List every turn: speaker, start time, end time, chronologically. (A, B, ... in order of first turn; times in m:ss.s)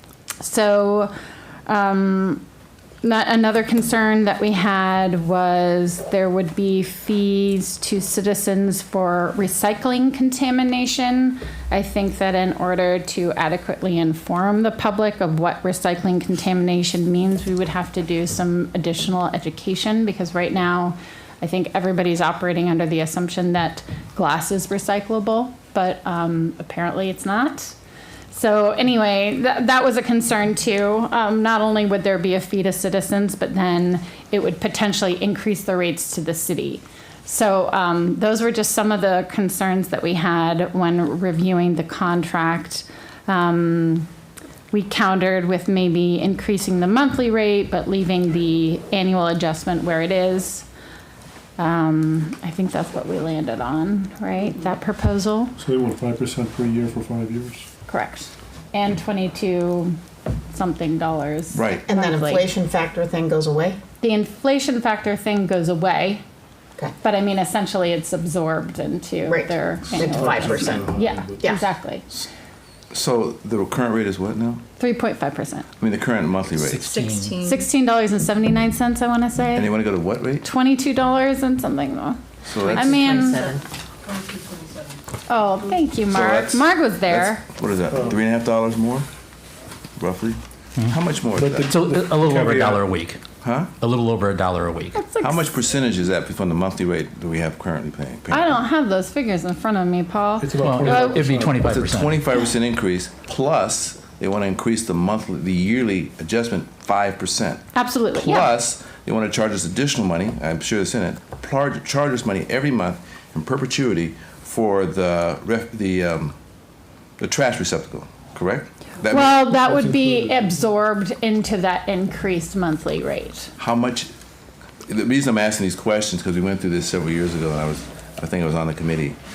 0:00.4-0:01.1 A
0:01.7-0:02.4 A
0:03.0-0:27.8 A
0:28.3-0:44.1 A
0:44.7-0:50.7 A
0:51.6-0:55.5 A
0:55.6-0:57.7 B
0:57.9-1:00.0 A
1:00.5-1:02.5 A
1:01.5-1:01.9 C
1:01.9-1:03.8 D
1:04.0-1:06.2 A
1:07.0-1:12.1 A
1:09.3-1:11.6 D
1:10.0-1:11.6 B
1:12.9-1:14.6 C
1:14.8-1:15.7 A
1:15.8-1:17.0 C
1:16.6-1:17.4 E
1:16.8-1:17.6 D
1:17.4-1:19.7 A
1:19.6-1:20.5 C
1:20.4-1:23.5 A
1:22.5-1:23.1 C
1:22.7-1:23.6 D
1:25.3-1:27.4 A
1:26.1-1:29.1 C
1:27.9-1:28.2 B
1:30.0-1:31.8 C
1:31.4-1:32.9 B
1:31.6-1:33.2 E
1:33.4-1:33.7 C
1:33.8-1:35.0 E
1:34.9-1:35.5 A
1:35.2-1:38.6 C
1:38.3-1:41.3 A
1:40.4-1:41.7 B
1:40.6-1:42.2 E
1:41.6-1:56.4 C
1:47.8-1:48.5 A
1:57.2-1:59.4 C
1:59.1-2:03.5 A
1:59.5-2:00.6 B
2:03.6-2:04.1 C
2:04.9-2:09.2 C